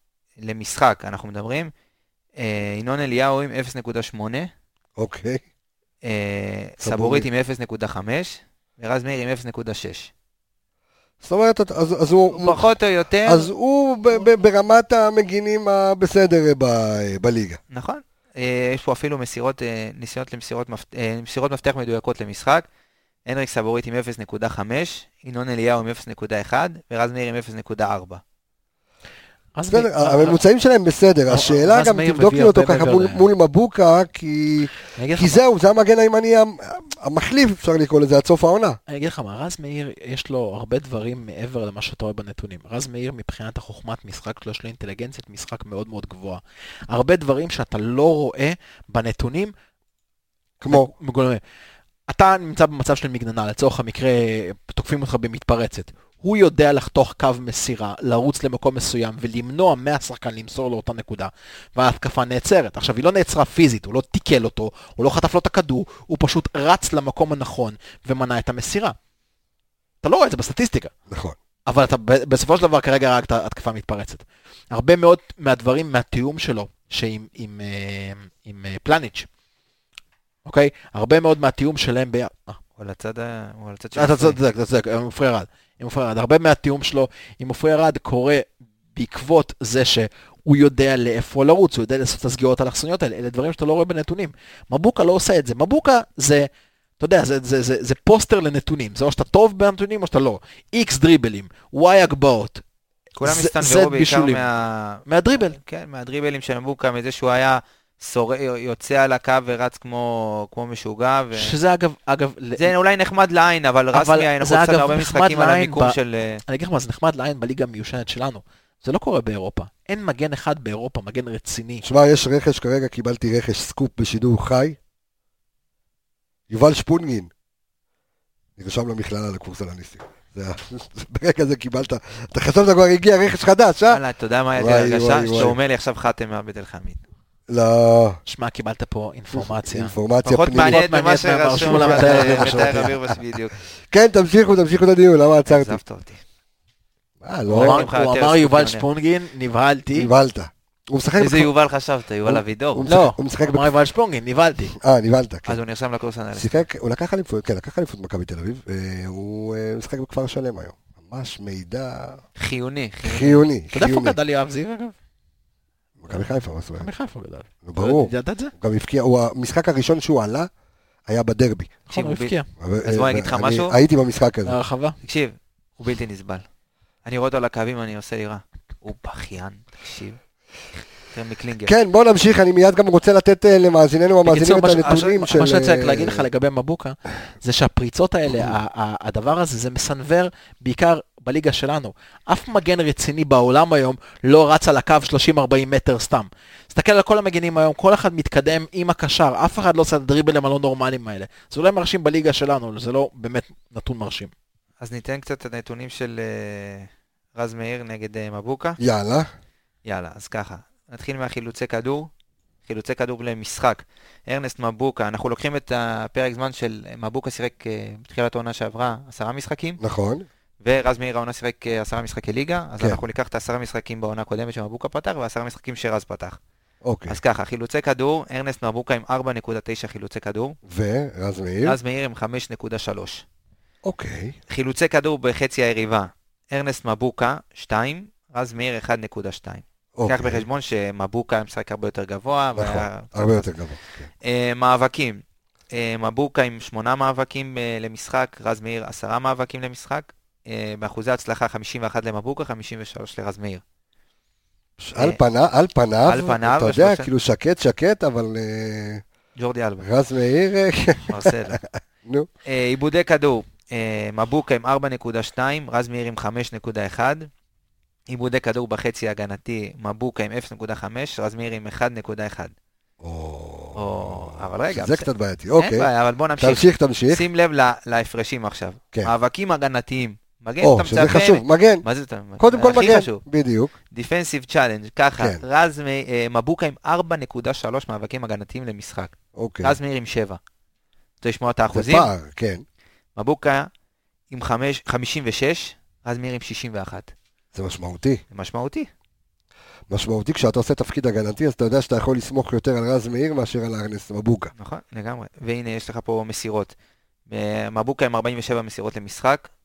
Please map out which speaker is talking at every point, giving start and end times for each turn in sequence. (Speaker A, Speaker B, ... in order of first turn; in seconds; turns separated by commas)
Speaker A: 0.4-1.7, Speaker A: 2.4-4.5, Speaker B: 5.0-5.4, Speaker A: 6.0-10.1, Speaker B: 6.8-7.2, Speaker B: 11.2-12.6, Speaker A: 12.3-13.5, Speaker B: 13.2-17.6, Speaker A: 17.7-22.6, Speaker A: 23.2-28.2, Speaker C: 29.5-30.4, Speaker B: 29.7-38.8, Speaker C: 31.3-33.3, Speaker C: 34.9-35.4, Speaker C: 38.9-49.5, Speaker B: 50.6-50.9, Speaker C: 50.7-51.4, Speaker C: 52.1-68.9, Speaker C: 70.0-70.9, Speaker B: 71.1-71.3, Speaker C: 71.7-79.3, Speaker C: 80.4-82.6, Speaker A: 82.8-84.4, Speaker C: 83.9-102.6, Speaker A: 103.2-111.5, Speaker C: 103.2-104.4, Speaker C: 105.0-105.5, Speaker C: 111.3-112.7, Speaker A: 112.6-116.4, Speaker C: 113.9-121.8, Speaker B: 121.8-124.8, Speaker B: 126.5-127.3, Speaker B: 128.6-134.0, Speaker A: 133.9-137.0, Speaker B: 134.6-135.6, Speaker B: 137.5-138.2, Speaker C: 138.2-139.9, Speaker B: 139.6-140.8, Speaker A: 140.2-143.5, Speaker C: 140.5-142.9, Speaker B: 141.6-143.1, Speaker B: 143.9-145.8, Speaker A: 145.4-146.2, Speaker B: 147.2-147.9, Speaker A: 147.5-148.8, Speaker C: 147.5-150.1, Speaker B: 149.9-151.5, Speaker A: 151.2-152.8, Speaker B: 152.2-153.7, Speaker C: 152.8-154.7, Speaker B: 154.8-155.6, Speaker A: 155.4-156.6, Speaker B: 156.3-162.2, Speaker A: 162.3-163.4, Speaker B: 163.0-164.2, Speaker C: 163.7-164.9, Speaker B: 166.0-166.9, Speaker C: 166.1-168.5, Speaker B: 167.6-170.5, Speaker B: 171.1-171.7, Speaker A: 171.9-172.3, Speaker C: 171.9-172.5, Speaker B: 172.6-174.5, Speaker A: 172.8-173.7, Speaker C: 174.4-175.0, Speaker A: 175.0-176.4, Speaker A: 177.0-180.2, Speaker A: 181.1-181.7, Speaker B: 181.7-186.2, Speaker C: 184.2-204.3, Speaker A: 204.8-208.8, Speaker B: 208.8-209.3, Speaker A: 209.8-212.1, Speaker A: 212.6-219.8, Speaker B: 219.8-220.2, Speaker A: 220.6-226.4, Speaker B: 226.8-227.2, Speaker A: 227.1-230.6, Speaker B: 230.7-231.7, Speaker A: 231.6-233.2, Speaker B: 233.8-234.3, Speaker A: 234.5-243.5, Speaker B: 239.9-240.4, Speaker B: 242.6-244.1, Speaker A: 244.2-253.6, Speaker B: 254.8-259.0, Speaker A: 256.0-257.1, Speaker A: 259.4-259.9, Speaker B: 259.8-262.3, Speaker A: 261.1-261.6, Speaker A: 262.4-267.3, Speaker A: 268.1-272.5, Speaker B: 273.0-275.9, Speaker A: 273.7-275.1, Speaker A: 275.6-283.2, Speaker B: 276.4-277.2, Speaker B: 280.6-281.8, Speaker B: 282.4-283.7, Speaker A: 283.9-290.4, Speaker B: 285.2-285.4, Speaker B: 289.4-289.7, Speaker A: 291.2-292.1, Speaker B: 291.7-292.6, Speaker A: 293.1-293.7, Speaker A: 294.3-297.1, Speaker B: 297.5-298.2, Speaker A: 298.3-298.9, Speaker B: 299.9-304.5, Speaker A: 304.6-306.7, Speaker A: 307.3-309.5